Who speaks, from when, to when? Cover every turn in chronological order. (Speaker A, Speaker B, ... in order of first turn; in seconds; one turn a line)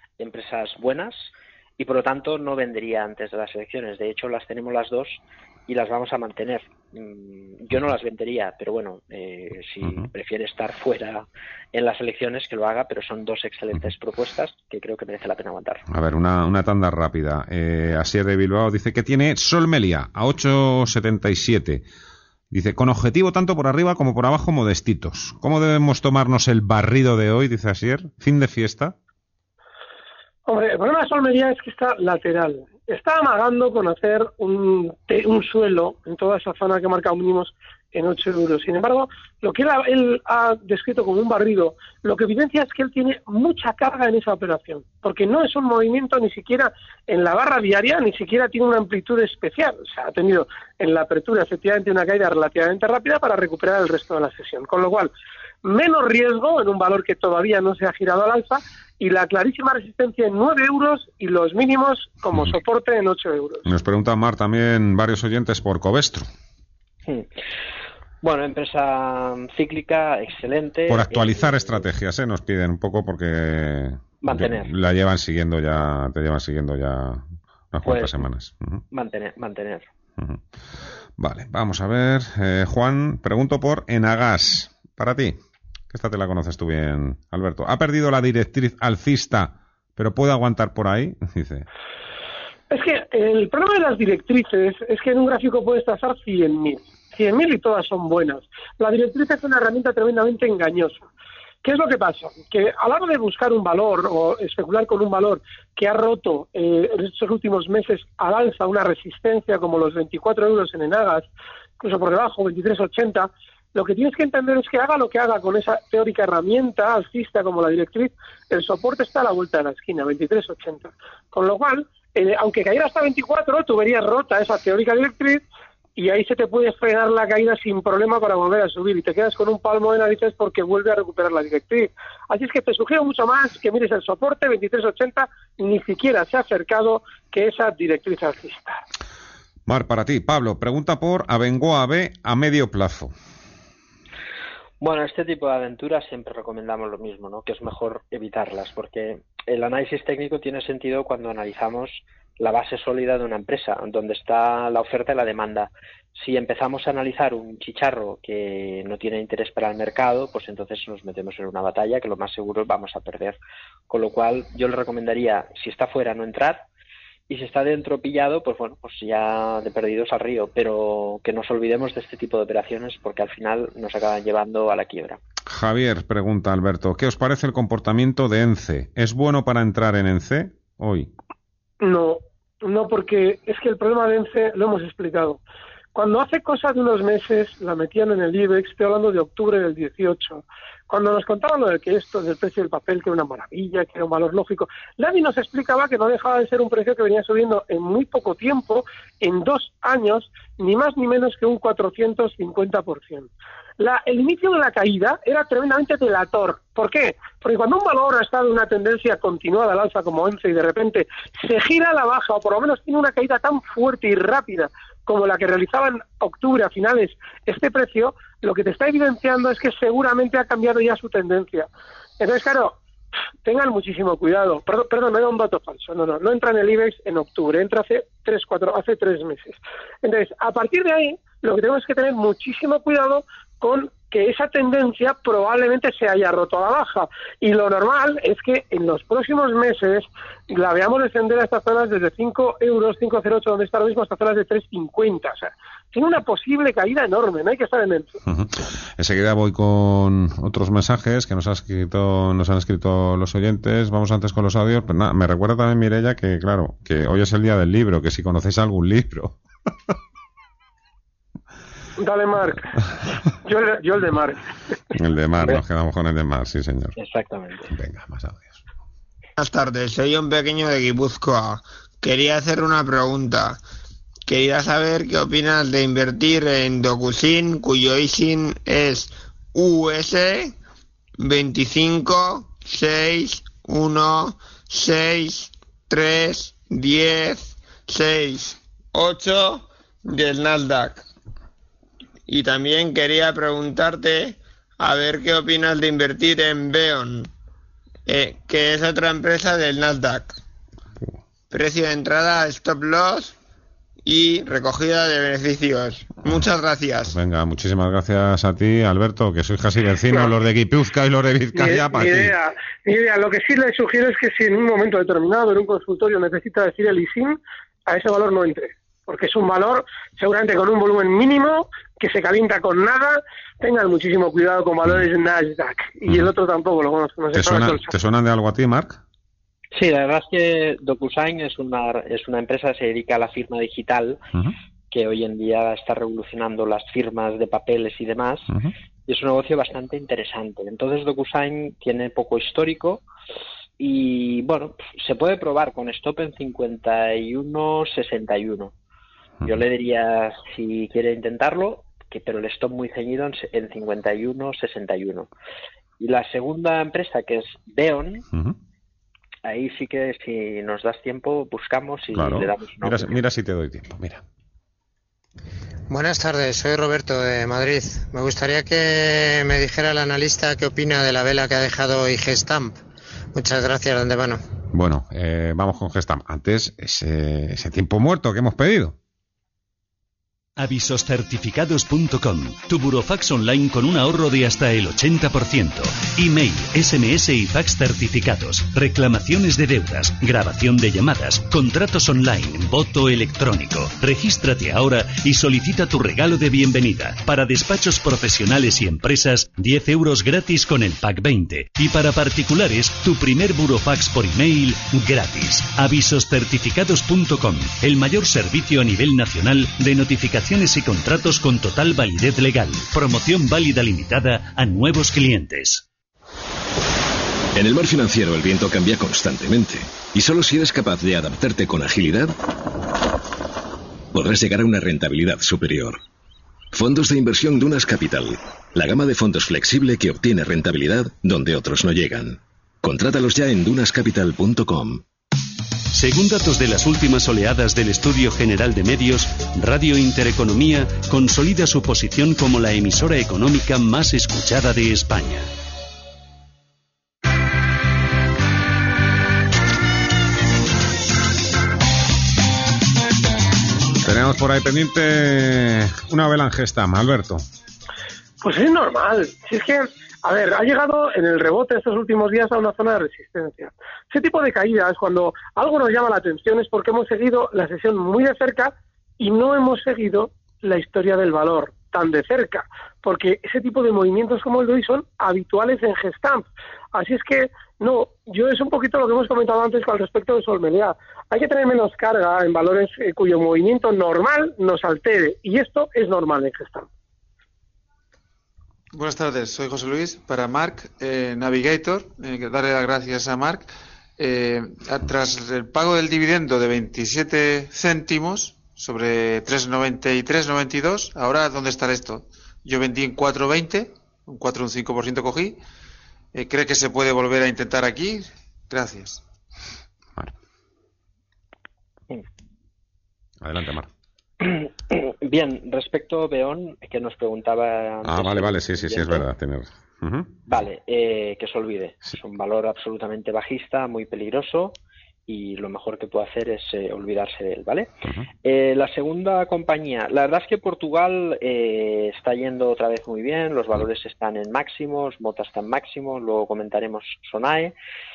Speaker A: 0.2-15.8
Speaker B: 15.9-21.9
Speaker B: 22.5-28.9
Speaker C: 30.5-55.1
Speaker C: 55.6-63.7
Speaker B: 63.7-66.3
Speaker A: 68.2-71.9
Speaker B: 70.9-78.8
Speaker A: 74.2-74.7
Speaker A: 77.8-78.3
Speaker A: 78.9-79.9
Speaker B: 81.2-85.4
Speaker B: 85.9-91.7
Speaker C: 92.7-101.0
Speaker C: 101.6-111.3
Speaker C: 111.8-125.4
Speaker C: 126.0-138.8
Speaker B: 139.7-143.1
Speaker A: 144.8-166.7
Speaker A: 167.3-175.2
Speaker B: 175.5-181.1
Speaker C: 181.8-185.4
Speaker C: 185.9-221.7
Speaker C: 222.2-222.8
Speaker C: 223.4-248.2
Speaker B: 248.3-259.4
Speaker C: 262.0-262.7
Speaker C: 263.4-264.4
Speaker B: 264.9-266.9
Speaker A: 267.0-267.7
Speaker B: 267.7-268.6
Speaker D: 269.4-273.6
Speaker D: 274.3-280.5
Speaker D: 281.2-291.0
Speaker D: 292.3-297.3
Speaker D: 298.1-300.4
Speaker D: 301.5-303.4
Speaker D: 304.1-307.1
Speaker B: 307.1-312.4
Speaker C: 311.5-327.9
Speaker B: 327.3-329.0
Speaker A: 329.7-334.2
Speaker A: 334.9-338.6
Speaker A: 339.1-343.0
Speaker A: 343.8-348.7
Speaker A: 349.4-355.3
Speaker A: 356.0-358.3
Speaker A: 359.4-363.2
Speaker B: 362.1-364.2
Speaker E: 365.9-372.8
Speaker E: 373.3-374.4
Speaker B: 374.7-379.0
Speaker F: 380.6-415.9
Speaker G: 417.5-422.3
Speaker G: 424.1-426.0
Speaker G: 426.7-435.0
Speaker F: 435.9-445.5
Speaker B: 454.0-457.4
Speaker C: 458.4-486.9
Speaker H: 488.9-505.6
Speaker H: 506.3-509.2
Speaker B: 513.4-513.9
Speaker A: 514.4-519.2
Speaker B: 518.0-520.3
Speaker A: 520.5-524.8
Speaker A: 525.3-527.9
Speaker A: 528.4-537.7